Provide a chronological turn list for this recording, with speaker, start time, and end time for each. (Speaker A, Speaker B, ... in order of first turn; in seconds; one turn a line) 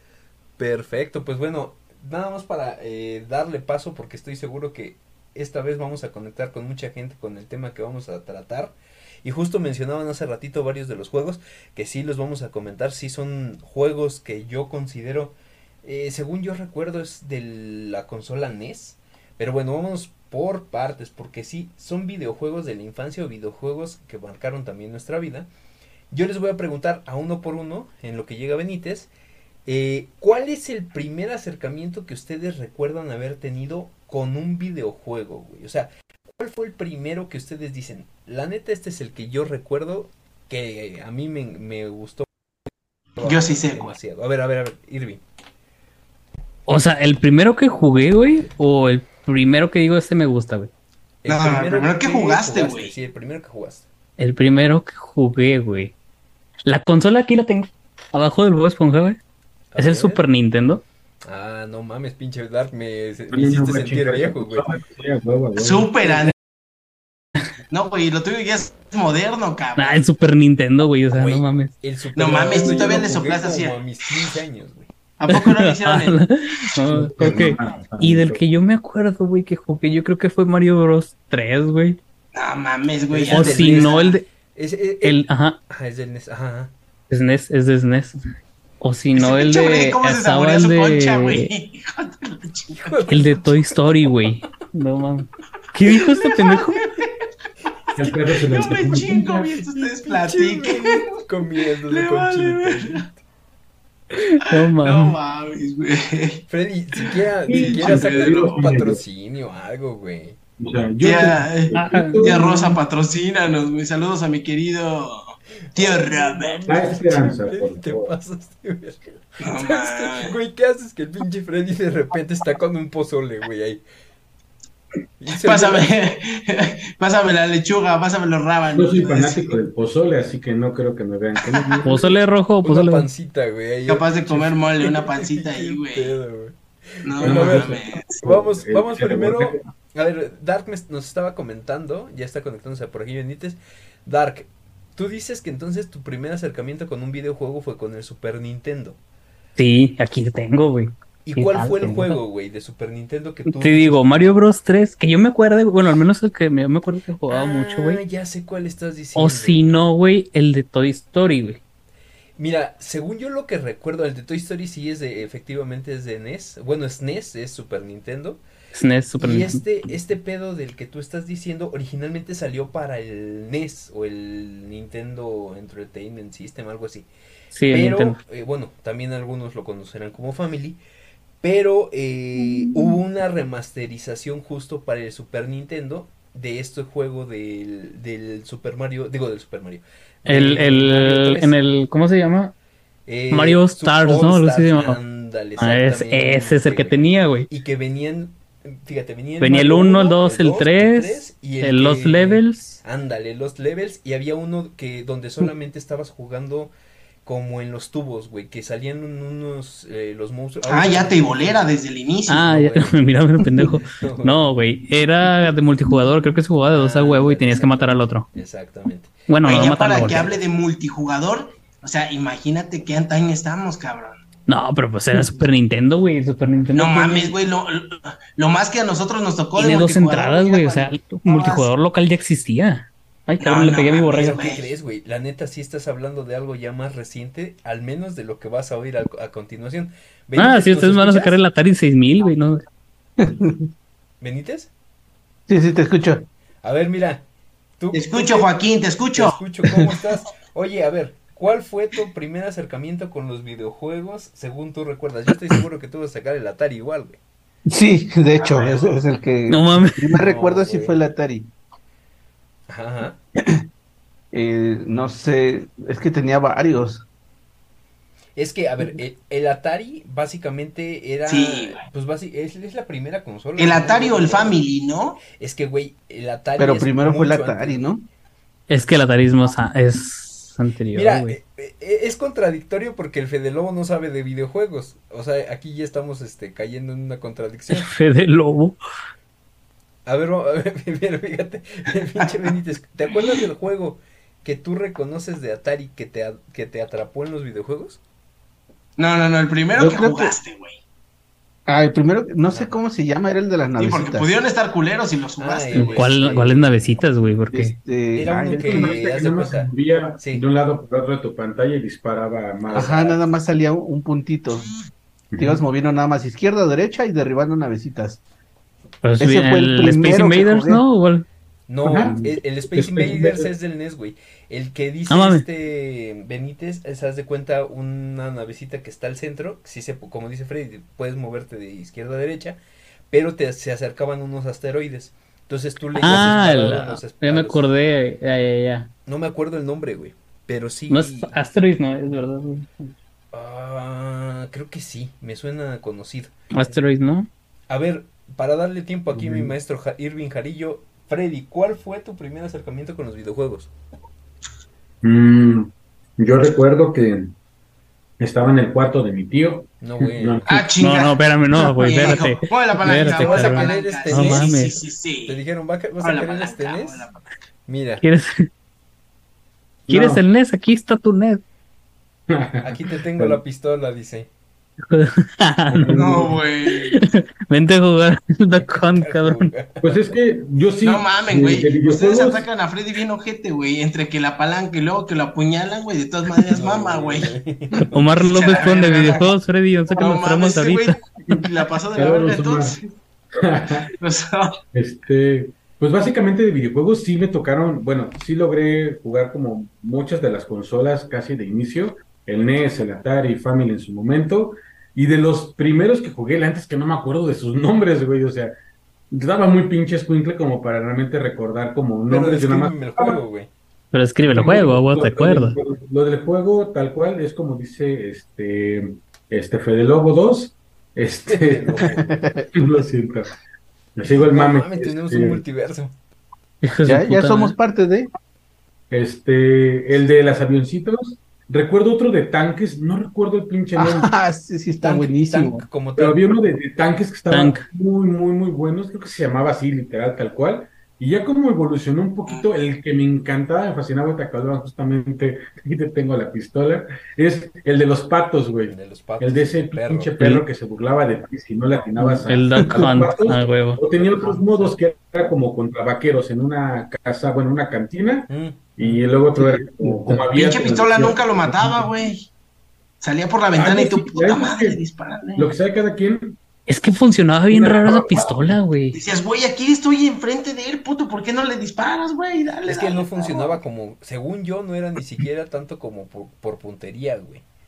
Speaker A: 0.6-25.5
Speaker A: 26.1-29.1
Speaker A: 29.7-42.3
Speaker A: 43.2-45.2
Speaker B: 43.2-44.0
Speaker C: 46.7-50.7
Speaker A: 51.2-53.9
Speaker B: 51.3-52.9
Speaker C: 54.2-55.9
Speaker C: 56.6-59.2
Speaker A: 59.7-60.2
Speaker C: 59.8-60.8
Speaker A: 61.3-64.7
Speaker D: 63.3-65.9
Speaker B: 65.6-66.3
Speaker B: 67.7-70.1
Speaker C: 69.8-71.7
Speaker A: 71.1-74.9
Speaker B: 72.2-73.8
Speaker B: 75.2-76.2
Speaker C: 75.3-82.0
Speaker D: 76.9-78.4
Speaker A: 77.2-77.6
Speaker B: 82.3-84.2
Speaker A: 83.1-86.7
Speaker C: 83.3-84.3
Speaker C: 85.0-85.6
Speaker C: 87.1-88.2
Speaker C: 88.8-91.5
Speaker B: 89.2-92.9
Speaker A: 92.8-93.5
Speaker C: 93.1-96.8
Speaker B: 95.9-97.1
Speaker D: 98.0-99.5
Speaker B: 98.3-101.2
Speaker A: 98.5-99.1
Speaker A: 99.7-103.2
Speaker B: 101.9-103.0
Speaker C: 104.1-105.2
Speaker B: 104.6-106.4
Speaker A: 106.5-110.4
Speaker B: 107.0-108.7
Speaker D: 107.5-109.0
Speaker D: 110.6-112.5
Speaker B: 111.0-116.6
Speaker C: 111.7-112.8
Speaker A: 115.7-123.8
Speaker D: 116.7-118.1
Speaker B: 119.4-120.3
Speaker A: 125.2-125.9
Speaker B: 125.3-129.6
Speaker D: 128.7-131.9
Speaker B: 131.4-131.8
Speaker C: 131.8-133.1
Speaker A: 132.6-149.0
Speaker B: 133.9-136.1
Speaker B: 137.1-138.2
Speaker D: 137.2-139.6
Speaker C: 149.6-152.2
Speaker A: 151.2-154.2
Speaker C: 153.5-158.0
Speaker A: 157.3-159.8
Speaker C: 159.2-161.6
Speaker A: 162.4-168.4
Speaker C: 168.7-169.6
Speaker A: 169.2-177.1
Speaker C: 177.5-178.2
Speaker A: 177.7-180.8
Speaker A: 181.4-191.5
Speaker C: 190.3-192.5
Speaker A: 193.1-206.7
Speaker C: 193.3-195.0
Speaker C: 195.6-197.5
Speaker C: 199.4-202.8
Speaker A: 207.2-211.7
Speaker B: 210.7-212.5
Speaker C: 212.3-218.3
Speaker A: 212.3-213.0
Speaker A: 213.8-214.5
Speaker A: 216.7-219.1
Speaker C: 219.3-220.4
Speaker B: 219.4-224.2
Speaker C: 224.5-227.3
Speaker B: 226.8-231.7
Speaker C: 229.6-234.4
Speaker B: 233.4-234.7
Speaker A: 234.1-241.4
Speaker C: 240.4-242.7
Speaker E: 243.2-243.7
Speaker A: 244.2-244.7
Speaker E: 245.5-246.3
Speaker A: 246.6-247.2
Speaker A: 247.8-248.5
Speaker B: 247.9-249.4
Speaker A: 249.1-257.2
Speaker E: 257.7-261.5
Speaker A: 258.6-259.0
Speaker C: 259.5-260.2
Speaker A: 260.1-261.0
Speaker A: 262.7-263.2
Speaker E: 264.3-267.1
Speaker A: 268.4-274.6
Speaker B: 271.3-271.8
Speaker B: 273.6-275.2
Speaker A: 275.3-277.9
Speaker E: 276.6-278.1
Speaker C: 278.7-281.4
Speaker A: 280.9-287.9
Speaker C: 287.7-288.8
Speaker A: 290.1-298.0
Speaker B: 299.0-300.8
Speaker E: 299.8-300.4
Speaker E: 301.7-304.3
Speaker A: 302.5-302.8
Speaker B: 303.8-306.1
Speaker A: 305.4-307.0
Speaker C: 305.8-307.8
Speaker E: 307.5-309.0
Speaker A: 308.1-310.4
Speaker D: 308.5-313.0
Speaker A: 312.7-313.2
Speaker E: 312.7-314.7
Speaker D: 315.3-315.6
Speaker E: 315.4-318.2
Speaker C: 319.0-321.3
Speaker E: 319.2-320.8
Speaker A: 321.7-332.6
Speaker D: 321.9-322.1
Speaker E: 322.0-322.3
Speaker D: 323.0-323.4
Speaker E: 323.0-323.4
Speaker C: 325.1-325.4
Speaker A: 333.1-337.7
Speaker C: 336.0-338.9
Speaker A: 339.1-341.3
Speaker C: 340.9-342.9
Speaker A: 343.3-346.8
Speaker C: 346.5-347.3
Speaker A: 347.7-353.7
Speaker D: 349.1-349.5
Speaker D: 355.0-357.3
Speaker D: 358.2-360.5
Speaker A: 359.8-360.6
Speaker B: 360.5-365.4
Speaker C: 360.8-364.8
Speaker A: 362.9-364.6
Speaker A: 365.3-367.1
Speaker B: 366.0-367.3
Speaker A: 367.7-368.0
Speaker C: 368.0-368.5
Speaker D: 369.9-370.2
Speaker C: 369.9-371.4
Speaker D: 372.3-373.4
Speaker A: 372.6-374.3
Speaker C: 374.9-379.5
Speaker D: 375.7-376.4
Speaker B: 375.9-377.0
Speaker A: 378.6-380.0
Speaker D: 379.8-382.5
Speaker B: 380.8-387.3
Speaker A: 386.5-388.2
Speaker C: 387.9-391.4
Speaker B: 388.2-389.3
Speaker B: 390.0-392.9
Speaker D: 392.0-392.8
Speaker D: 393.4-393.9
Speaker B: 394.0-394.6
Speaker D: 394.7-408.5
Speaker D: 409.1-413.2
Speaker A: 412.1-413.5
Speaker C: 413.9-415.6
Speaker D: 414.3-421.9
Speaker A: 421.3-422.1
Speaker E: 422.0-422.5
Speaker D: 422.5-423.3
Speaker D: 424.0-425.4
Speaker A: 424.2-425.9
Speaker C: 426.6-427.6
Speaker E: 426.8-428.1
Speaker D: 428.9-434.1
Speaker E: 433.8-435.6
Speaker A: 434.8-436.3
Speaker D: 436.0-461.9
Speaker C: 437.3-437.6
Speaker A: 448.7-450.1
Speaker C: 450.2-450.4
Speaker E: 452.0-452.9
Speaker C: 452.3-453.8
Speaker A: 453.9-454.8
Speaker A: 458.3-459.0
Speaker E: 459.4-460.4
Speaker B: 460.3-462.3
Speaker B: 463.0-465.5
Speaker D: 463.6-464.8
Speaker D: 465.4-466.4
Speaker C: 466.7-469.0
Speaker D: 467.5-468.6
Speaker B: 468.9-473.6
Speaker A: 472.7-477.4